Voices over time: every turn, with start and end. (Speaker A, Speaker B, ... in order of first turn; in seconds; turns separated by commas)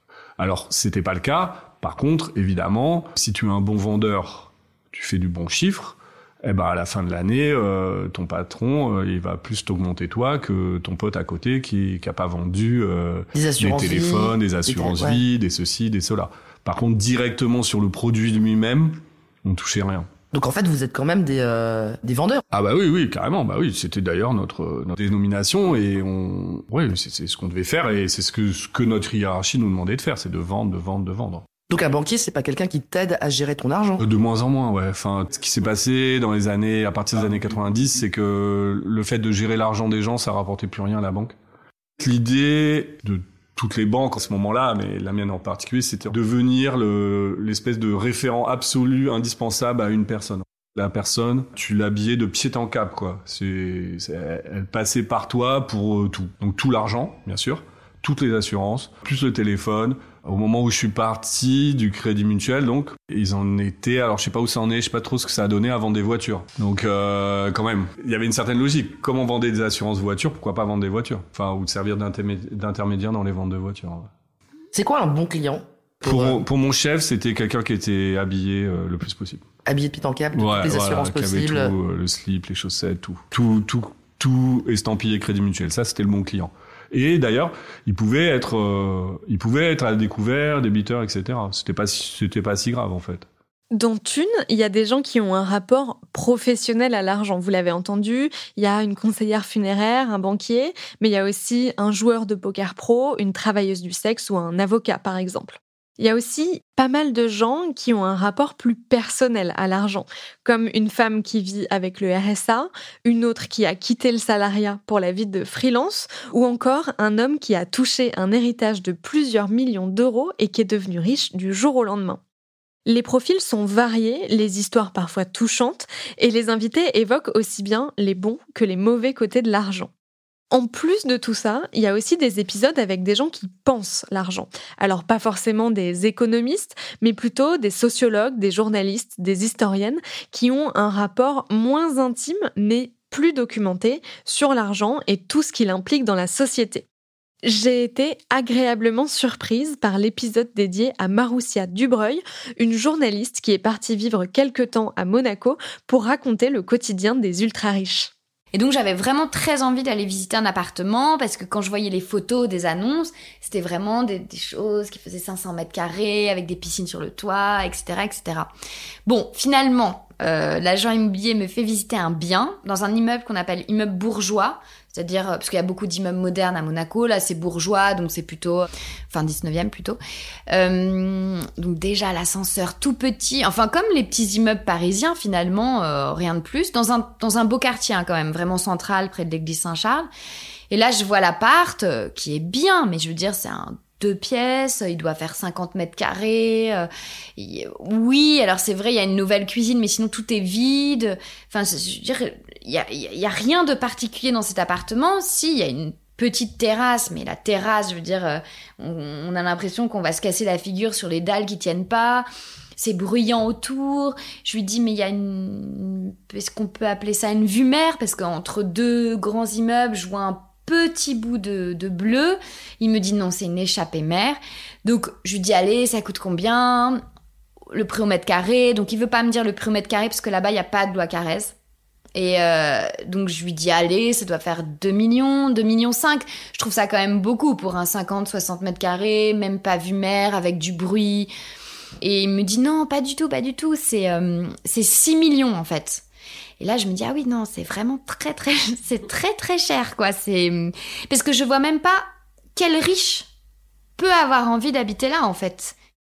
Speaker A: 0.4-20.1, Speaker B: 13.3-15.2, Speaker B: 20.3-22.4, Speaker A: 22.5-31.5, Speaker B: 31.7-34.0, Speaker A: 34.0-41.4, Speaker A: 42.0-74.1, Speaker B: 74.7-76.5, Speaker A: 76.0-79.4, Speaker B: 79.7-81.7, Speaker A: 80.3-93.3, Speaker C: 93.7-122.2, Speaker C: 122.8-129.9, Speaker C: 130.5-146.8, Speaker C: 147.4-158.1, Speaker D: 158.5-168.5, Speaker D: 169.1-180.0, Speaker D: 180.5-190.1, Speaker D: 190.7-227.0, Speaker D: 227.7-231.6, Speaker D: 232.2-241.3, Speaker D: 242.0-246.1, Speaker D: 246.6-253.3, Speaker D: 254.0-255.8